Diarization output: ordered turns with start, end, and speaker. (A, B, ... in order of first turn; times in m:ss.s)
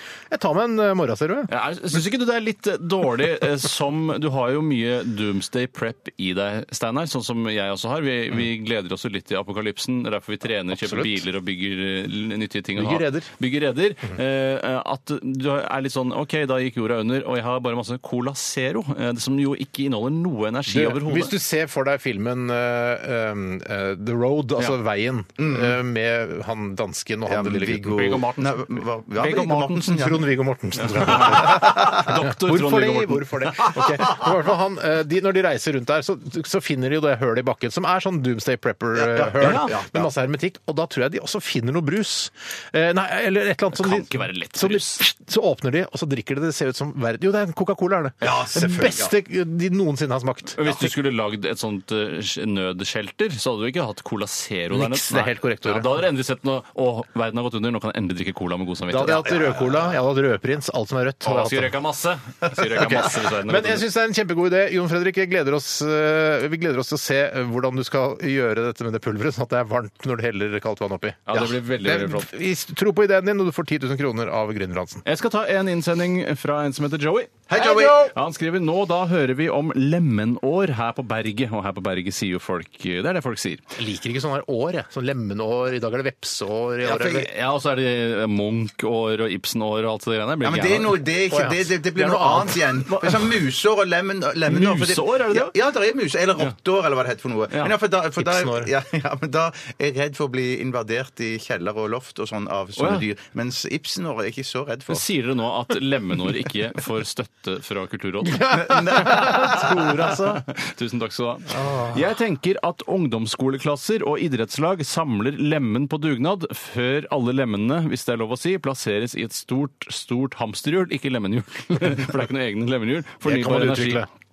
0:00.3-0:01.5 A
0:01.5-0:21.3 B
0:10.7-0:11.2 A
0:12.8-0:13.3 A
0:20.7-0:28.2 A
0:25.4-0:25.8 C
0:27.3-0:30.3 C
0:27.9-0:29.9 B
0:29.8-0:50.9 A
0:30.8-0:33.8 B
0:31.4-0:32.1 C
0:39.0-0:40.1 C
0:39.4-0:39.7 B
0:43.7-0:45.0 B
0:48.2-0:49.1 C
0:50.6-0:59.3 B
0:54.7-0:56.0 A
0:58.9-1:01.7 A
0:59.1-0:59.8 C
1:01.2-1:03.8 B
1:02.8-1:15.0 A
1:11.3-1:12.3 B
1:15.0-1:23.6 B
1:17.5-1:18.1 C
1:23.8-1:27.3 A
1:26.8-1:27.3 C
1:27.1-1:31.0 B
1:30.4-1:45.0 C
1:31.3-1:32.8 A
1:32.9-1:33.1 B
1:34.5-1:35.5 B
1:38.2-1:38.7 A
1:42.8-1:43.0 B
1:44.9-2:04.0 B
1:48.2-1:50.4 A
1:48.5-1:50.0 C
1:51.5-1:52.0 C
2:03.2-2:04.1 A